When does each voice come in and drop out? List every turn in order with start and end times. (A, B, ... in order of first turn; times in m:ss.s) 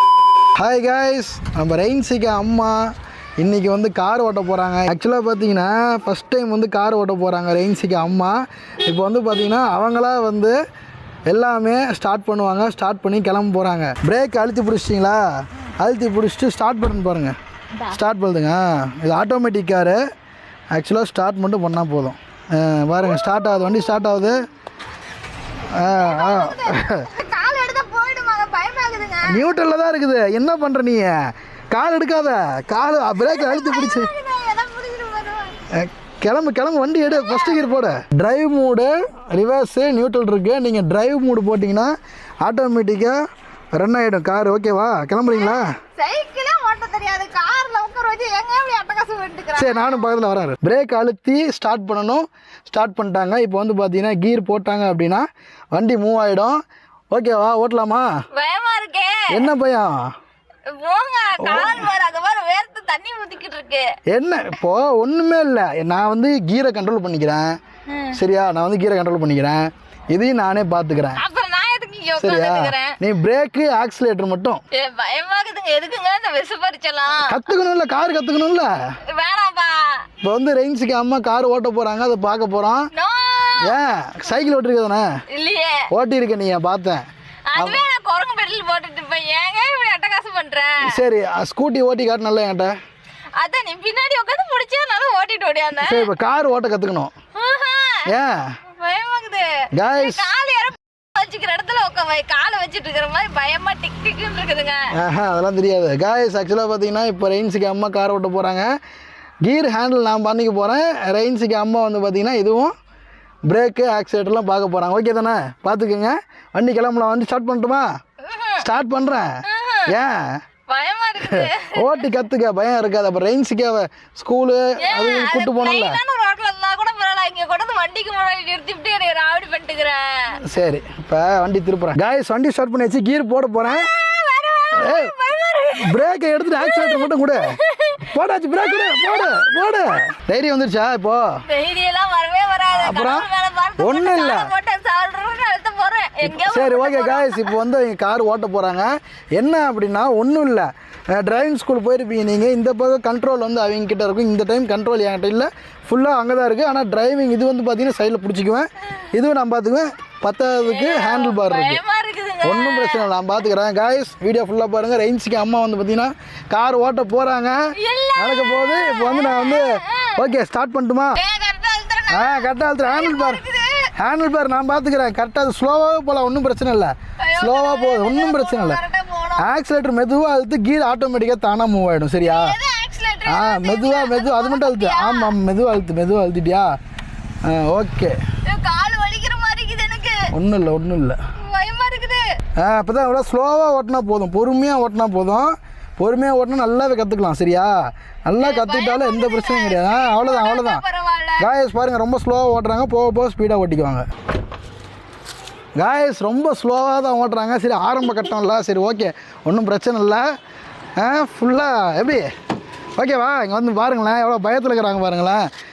0:00.6-0:02.8 A
0:03.4-0:10.6 A
0:11.3-0:15.2 A
0:15.8-0:20.0 A
0:20.7-0:24.5 A
0:25.7-0:27.0 A
0:25.9-0:29.5 B
0:29.3-0:31.2 A
0:31.7-0:34.1 A
0:33.2-0:35.5 B
0:35.7-0:43.2 A
0:37.1-0:37.7 B
0:43.7-0:45.8 A
0:45.2-0:50.1 B
0:49.6-0:56.6 A
0:57.1-0:58.1 A
0:58.3-0:59.4 B
0:59.3-1:00.1 A
1:00.7-1:03.9 B
1:01.4-1:01.9 A
1:04.1-1:07.6 A
1:07.9-1:08.2 B
1:08.1-1:11.2 A
1:11.2-1:13.0 B
1:12.2-1:14.6 A
1:14.7-1:17.4 B
1:17.2-1:18.7 A
1:19.1-1:20.0 B
1:20.2-1:22.9 A
1:22.9-1:23.7 B
1:23.6-1:25.1 A
1:25.3-1:25.8 B
1:25.9-1:27.0 A
1:27.5-1:30.9 B
1:27.6-1:27.8 A
1:30.8-1:32.7 A
1:33.4-1:36.1 B
1:35.8-1:37.1 A
1:37.4-1:38.1 B
1:38.1-1:38.5 A
1:38.7-1:44.8 B
1:39.7-1:40.3 A
1:44.9-1:48.7 A
1:49.4-1:52.7 A
1:53.5-1:57.9 A
1:58.3-1:58.6 B
1:58.6-1:59.4 A
1:59.4-1:59.9 B
1:59.9-2:00.4 A
2:00.7-2:02.0 B
2:01.2-2:06.0 A
2:04.8-2:10.4 B
2:10.4-2:13.9 A
2:13.7-2:15.9 B
2:14.7-2:15.1 A
2:15.8-2:17.5 A
2:16.6-2:19.4 B
2:18.1-2:21.2 A
2:21.5-2:27.5 B
2:22.7-2:24.5 A
2:26.2-2:41.8 A
2:40.6-2:43.0 B
2:42.4-2:47.6 A
2:47.8-2:50.2 B
2:48.2-2:51.2 A
2:51.2-2:53.8 B
2:52.1-2:53.4 A
2:54.0-2:58.8 A
2:57.2-2:59.5 B
2:59.4-3:02.6 A
3:02.2-3:05.3 B
3:03.3-3:06.7 A
3:07.4-3:08.2 A
3:08.4-3:10.2 B
3:10.3-3:11.2 A
3:11.4-3:12.2 B
3:12.6-3:17.7 A
3:18.2-3:20.8 A
3:18.4-3:21.4 B
3:21.4-3:24.0 A
3:25.8-3:30.2 A
3:31.0-3:32.3 A
3:33.0-3:35.4 A